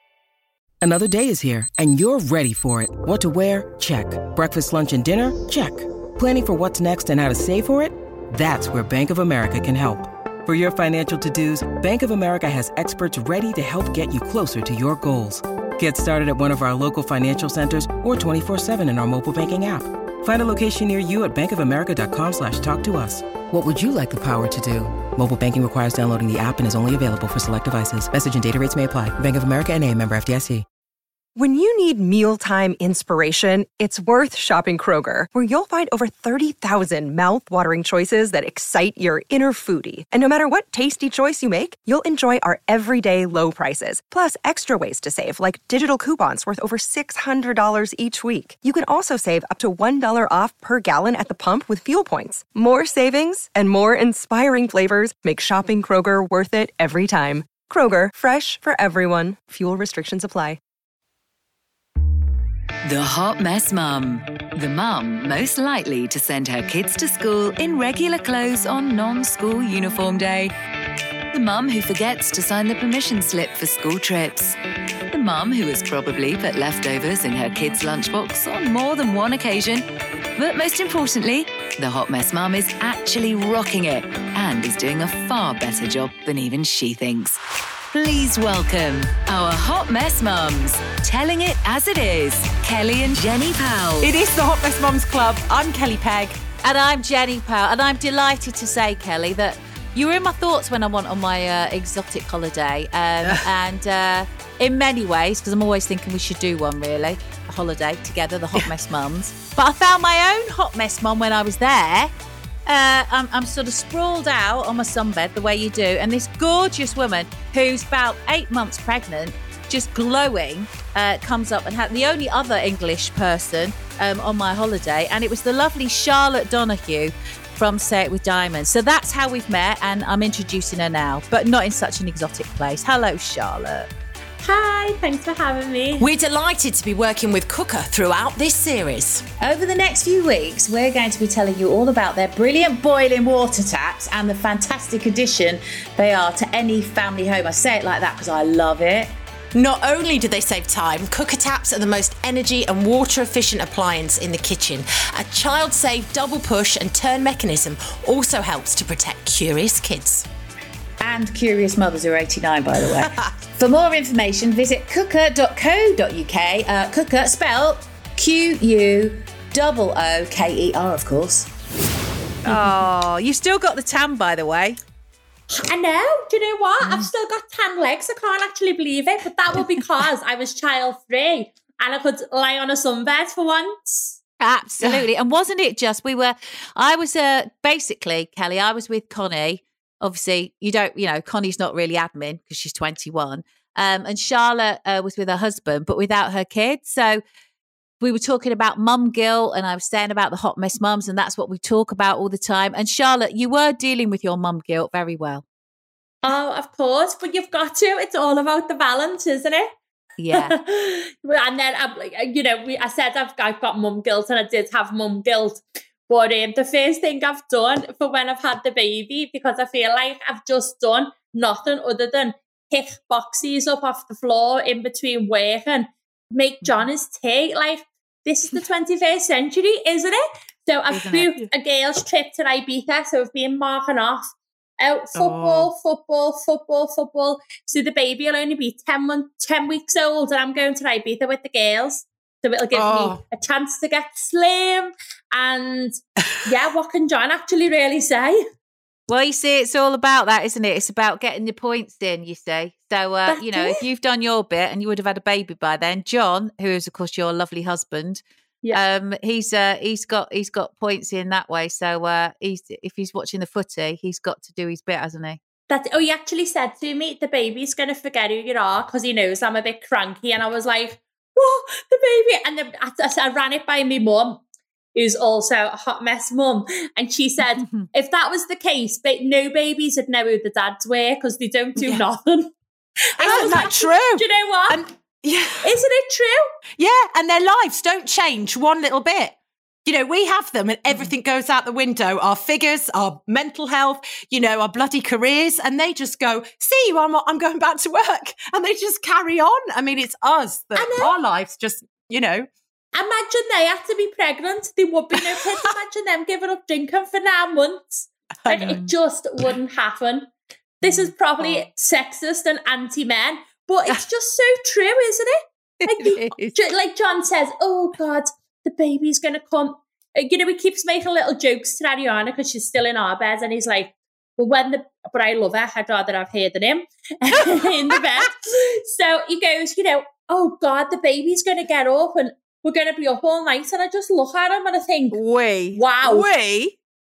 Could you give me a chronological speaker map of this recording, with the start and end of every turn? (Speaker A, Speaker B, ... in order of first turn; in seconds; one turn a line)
Speaker A: 0.8-30.6
Speaker B: 31.4-60.6
Speaker C: 62.8-70.5
Speaker C: 71.3-74.6
Speaker C: 75.1-87.4
Speaker C: 87.9-94.1
Speaker D: 94.0-96.4
Speaker E: 96.6-112.1
Speaker E: 112.7-133.9
Speaker F: 134.4-136.1
Speaker D: 136.0-139.2
Speaker E: 139.4-149.1
Speaker D: 149.5-160.3
Speaker E: 161.0-171.5
Speaker E: 172.4-174.8
Speaker F: 175.6-184.2
Speaker E: 176.8-177.1
Speaker E: 184.4-197.2
Speaker E: 198.0-205.4
Speaker F: 206.2-209.7
Speaker E: 210.2-210.6
Speaker F: 210.3-248.4
Speaker E: 230.9-231.3
Speaker D: 235.2-235.7
Speaker D: 242.7-243.2
Speaker E: 249.1-258.2
Speaker F: 253.3-253.8
Speaker E: 258.7-265.4
Speaker F: 265.7-274.4
Speaker F: 274.9-282.5
Speaker E: 277.6-277.9
Speaker F: 283.1-284.8
Speaker D: 283.2-285.7
Speaker F: 285.6-286.4
Speaker D: 286.8-302.5
Speaker F: 300.8-301.1
Speaker F: 302.9-310.3
Speaker D: 305.2-305.7
Speaker D: 308.4-308.8
Speaker F: 310.8-335.2
Speaker E: 315.8-316.6
Speaker E: 335.1-336.8
Speaker F: 335.7-336.3